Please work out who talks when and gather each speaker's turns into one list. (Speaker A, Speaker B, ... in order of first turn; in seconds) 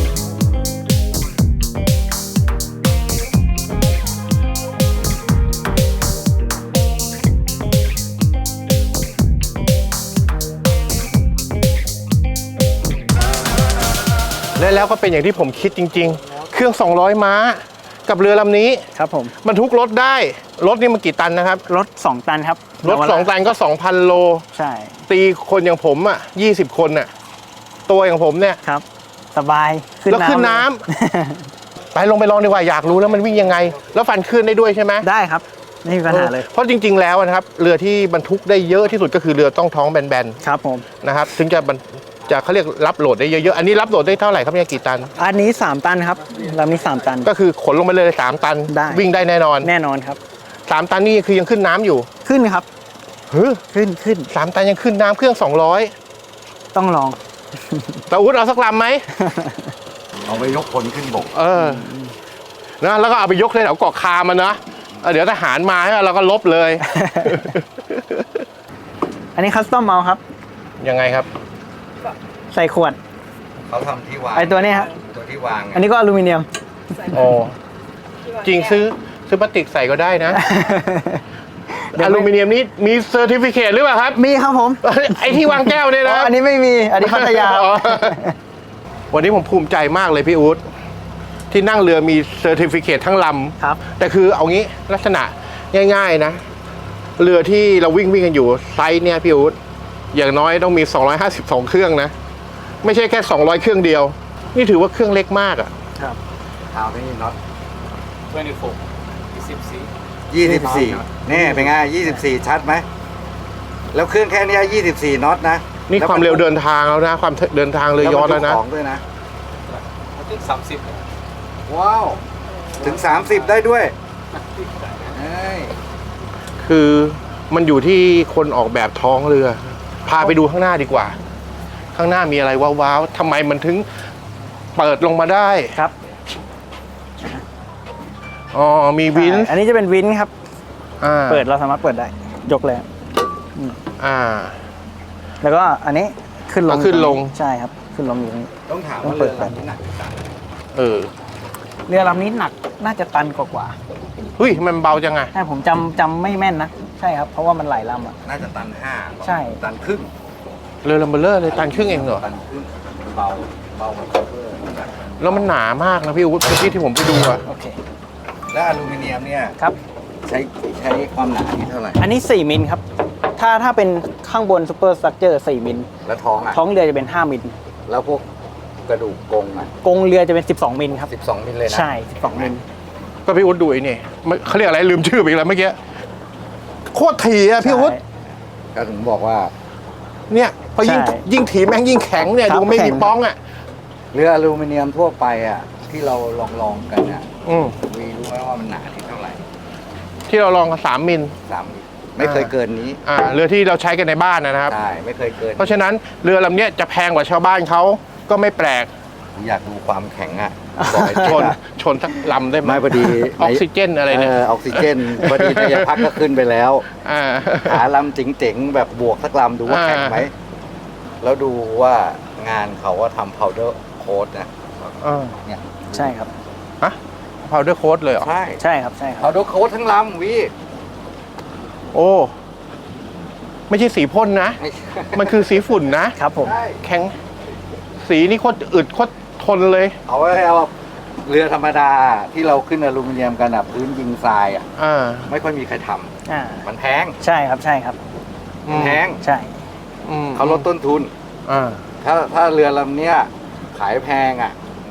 Speaker A: 14.6-18.9, 19.4-21.6, 22.8-24.4, 25.1-27.1, 27.9-28.6, 30.1-30.8, 31.9-35.0, 36.1-40.4, 41.0-45.1, 47.2-49.7, 50.7-52.1, 53.3-53.6, 54.3-55.9, 58.1-59.1, 61.3-61.9, 62.8-68.4, 70.8-71.3, 77.1-77.5, 78.3-80.4, 81.9-84.2, 84.8-86.3, 87.0-88.2, 89.1-90.6, 91.5-96.4, 97.2-99.5, 100.1-102.1, 102.8-105.7, 115.9-118.6, 126.6-131.2, 131.9-133.8, 134.8-135.8, 138.5-139.5, 141.0-141.4, 144.0-144.6, 146.7-147.3, 150.7-151.1, 154.4-155.3, 160.8-162.2, 165.2-167.4, 183.2-185.8, 186.9-187.9, 190.3-193.4, 197.4-197.8, 200.3-201.3, 202.2-202.5, 203.0-204.7, 205.6-208.9, 211.2-216.1, 217.0-217.8, 219.7-220.2, 225.0-225.4, 226.8-228.3, 231.9-232.3, 233.7-234.6, 235.1-236.2, 236.8-237.1, 238.0-240.0, 244.8-245.3, 248.7-249.0, 250.0-250.7, 251.5-251.8
Speaker B: 18.9-19.3, 21.7-23.3, 24.5-25.0, 28.6-31.5, 35.0-36.5, 40.4-40.9, 45.2-47.3, 48.7-49.0, 49.6-50.2, 52.2-52.7, 53.7-54.3, 56.7-58.0, 59.1-59.7, 61.6-62.1, 66.8-67.5, 69.3-70.2, 72.5-73.0, 74.3-74.9, 75.7-76.5, 80.3-82.3, 84.2-88.3, 110.4-111.7, 139.1-140.3, 141.3-142.9, 143.5-143.8, 145.4-148.5, 149.0-149.5, 151.9-153.8, 155.3-158.2, 159.2-159.6, 167.4-167.8, 172.0-172.8, 173.4-175.9, 176.5-177.5, 179.8-181.1, 181.7-182.6, 187.6-188.0, 190.8-191.2, 192.4-193.1, 210.8-211.5, 225.9-226.3, 228.6-229.3, 236.2-236.6, 246.3-246.6, 247.2-248.0, 249.2-249.5
Speaker C: 60.2-61.3, 73.7-75.8, 106.7-107.4, 110.3-112.8, 113.9-116.4, 118.0-119.0, 121.7-122.2, 122.8-123.9, 125.0-125.7, 148.7-150.3, 158.2-160.1, 161.5-165.3, 168.5-169.5, 170.2-172.0, 176.0-176.6, 177.9-178.2, 178.9-179.7, 181.1-182.5, 188.7-189.5, 194.1-197.3, 197.8-199.4, 201.5-203.0, 204.7-205.8, 209.4-211.6, 212.6-216.8, 217.6-220.3, 221.2-224.9, 225.4-226.1, 228.2-228.6, 229.2-230.5, 234.6-235.4, 236.4-236.8, 240.1-240.7, 241.2-244.7, 245.3-247.2, 248.7-249.2, 250.3-251.1, 252.0-254.6
Speaker D: 108.3-109.9, 110.5-110.9, 119.7-121.0, 122.8-123.6, 124.3-125.1